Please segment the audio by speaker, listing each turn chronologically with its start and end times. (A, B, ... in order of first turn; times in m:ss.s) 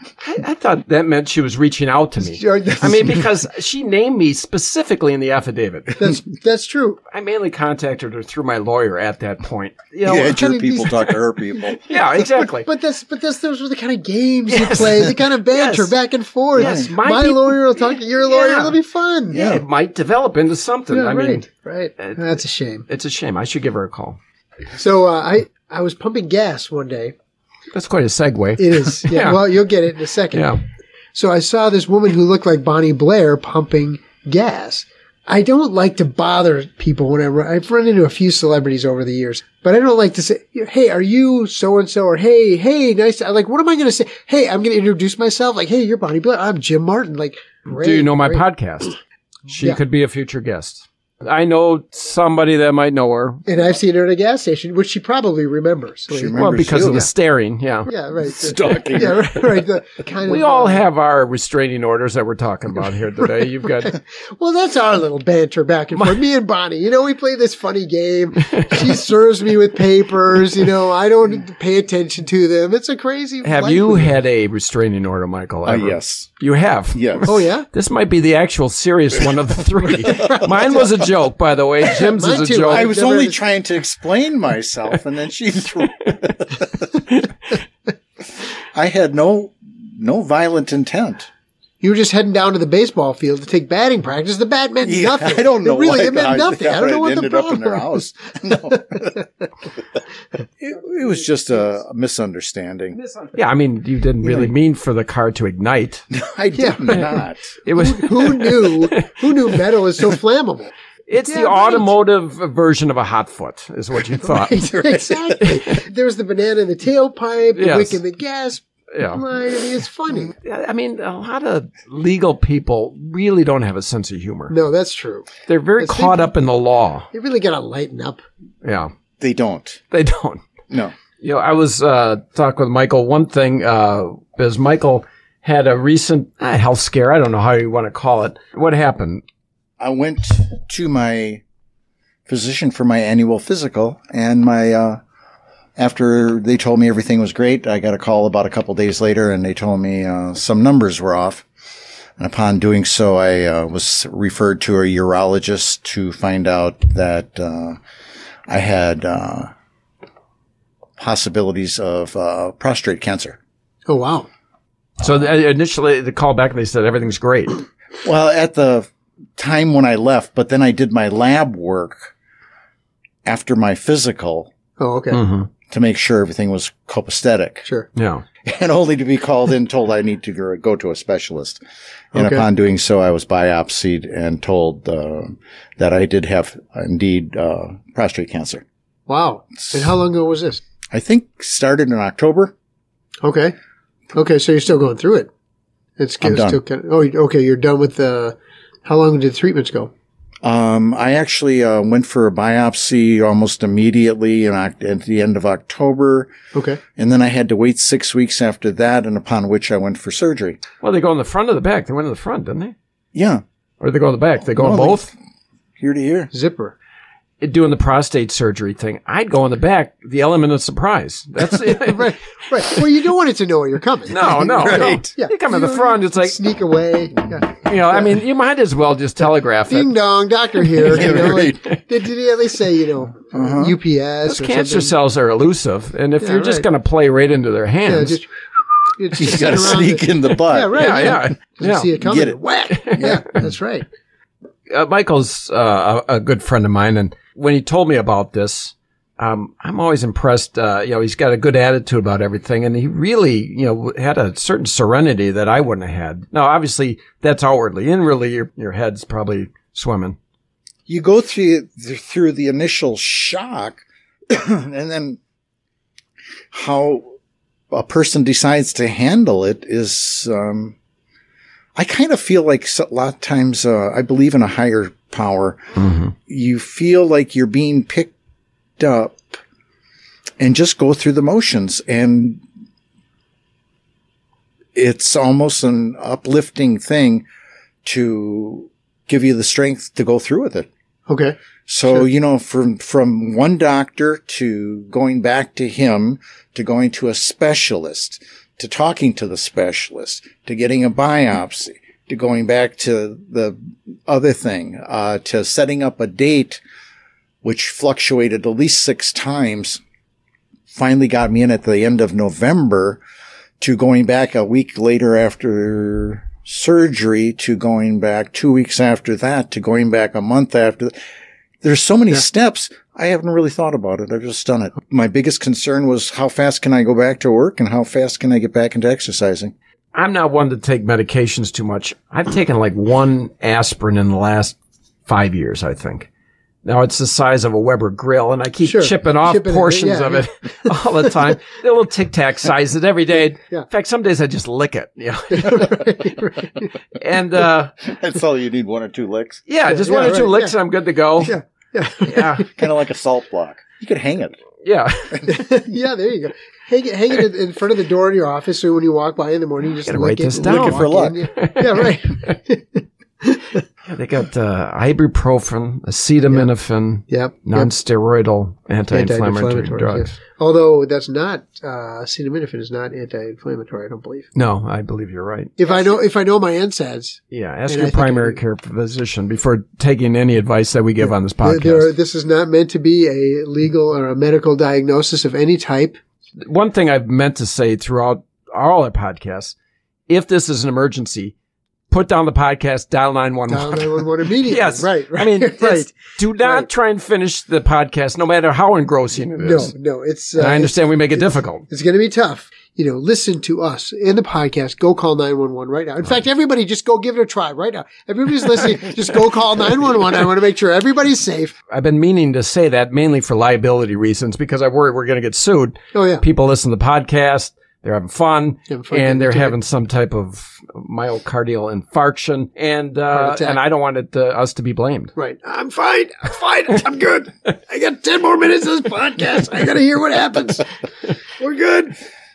0:00.2-0:06.0 A
0:02.3-0:03.2 B
0:06.0-0:07.0 B
0:07.1-0:11.1 A
0:10.0-0:12.5 C
0:10.1-0:10.9 B
0:11.7-0:12.7 A
0:12.6-0:19.4 B
0:14.5-0:16.0 A
0:16.5-0:18.8 A
0:16.6-0:16.9 C
0:19.3-0:21.4 A
0:19.3-0:19.6 C
0:20.9-0:22.8 B
0:22.0-0:24.2 A
0:24.7-0:27.1 B
0:27.7-0:29.4 A
0:28.6-0:30.5 B
0:30.3-0:30.6 A
0:31.1-0:48.4 B
0:47.7-0:53.4 A
0:53.5-0:56.4 B
0:56.1-0:57.1 C
0:56.3-0:57.9 A
0:57.9-1:00.8 B
0:58.2-0:59.3 C
1:00.2-1:04.0 A
1:03.9-1:14.1 B
1:08.6-1:08.8 A
1:13.4-1:22.9 A
1:15.6-1:16.3 C
1:16.9-1:17.3 C
1:17.3-1:17.7 B
1:20.0-1:20.9 B
1:21.9-1:23.4 B
1:22.7-1:26.8 C
1:28.7-1:31.3 C
1:31.8-1:37.9 B
1:34.8-1:39.2 C
1:38.5-1:39.2 B
1:40.6-1:43.0 C
1:43.0-1:46.1 A
1:44.2-1:44.5 C
1:46.1-1:47.5 C
1:46.6-1:47.1 B
1:47.6-1:49.2 A
1:47.7-1:50.7 B
1:51.1-1:54.6 A
1:51.2-1:51.9 B
1:54.2-2:00.3 B
1:54.6-1:55.3 C
1:57.5-1:58.0 A
1:58.9-1:59.2 A
2:00.4-2:04.5 A
2:04.5-2:06.3 B
2:05.4-2:07.1 A
2:07.1-2:08.2 B
2:08.6-2:08.9 A
2:09.2-2:09.8 C
2:09.9-2:10.4 A
2:11.2-2:19.2 A
2:19.8-2:21.4 C
2:22.3-2:25.0 C
2:25.8-2:31.4 C
2:32.2-2:37.8 C
2:38.5-2:39.5 C
2:41.0-2:43.4 C
2:43.9-2:44.3 B
2:45.0-2:47.6 A
2:48.0-2:52.1 C
2:53.2-2:54.5 C
2:54.8-2:55.2 B
2:55.1-2:55.5 A
2:55.7-2:57.6 C
2:57.9-2:58.2 A
2:58.4-3:01.6 C
3:02.1-3:08.6 C
3:02.1-3:02.4 B
3:09.1-3:10.6 B
3:10.9-3:12.5 C
3:13.2-3:13.5 B
3:14.1-3:15.3 B
3:16.0-3:19.9 B
3:16.2-3:16.6 C
3:20.4-3:26.3 C
3:26.5-3:26.8 B
3:27.0-3:30.6 C
3:30.8-3:32.7 A
3:33.1-3:33.4 C
3:33.8-3:35.1 A
3:34.6-3:35.1 C
3:35.8-3:36.3 C
3:36.3-3:36.7 B
3:37.4-3:42.1 A
3:41.5-3:48.1 B
3:44.1-3:46.4 A
3:44.6-3:45.0 C
3:47.5-3:49.9 A
3:49.7-3:54.9 B
3:50.8-3:51.8 A
3:50.8-3:51.6 C
3:53.2-3:53.8 C
3:54.2-3:58.2 A
3:56.2-3:56.6 B
3:57.8-3:58.3 B
3:59.0-4:03.8 B
3:59.2-4:01.2 C
4:00.7-4:01.9 A
4:01.9-4:03.5 C
4:02.7-4:03.2 A
4:04.7-4:20.2 A
4:20.9-4:25.2 C
4:26.5-4:27.1 C
4:27.7-4:30.8 C
4:31.8-4:35.6 C
4:35.8-4:36.1 A
4:36.2-4:38.1 C
4:38.8-4:39.4 C
4:40.4-4:42.4 C
4:44.7-4:47.2 C
4:47.8-4:50.7 C
4:51.1-4:51.4 B
4:51.7-5:06.6 C
5:07.4-5:09.8 C
5:10.7-5:13.0 C
5:13.6-5:20.9 C
5:21.6-5:29.5 C
5:29.9-5:36.1 A
5:36.6-5:45.7 A
5:38.6-5:40.3 B
5:45.3-5:46.7 B
5:46.9-5:47.8 A
5:47.8-5:50.3 C
5:49.5-5:51.4 A
5:49.7-5:50.5 B
5:51.2-5:52.5 B
5:52.0-5:52.4 A
5:52.5-5:54.4 C
5:54.6-5:55.4 A
5:55.3-6:03.6 B
5:59.9-6:01.9 A
6:00.3-6:01.2 C
6:03.9-6:10.1 A
6:07.1-6:07.7 B
6:08.9-6:14.3 B
6:14.3-6:15.6 A
6:15.6-6:18.4 B
6:17.3-6:21.9 A
6:21.0-6:26.0 B
6:26.4-6:29.5 A
6:30.1-6:31.3 A
6:31.9-6:39.7 A
6:33.5-6:36.7 B
6:39.4-6:51.5 B
6:40.3-6:41.6 A
6:51.7-7:05.1 A
6:55.9-6:56.2 B
6:58.7-6:59.5 B
7:03.1-7:03.6 B
7:05.2-7:10.6 B
7:11.4-7:12.0 B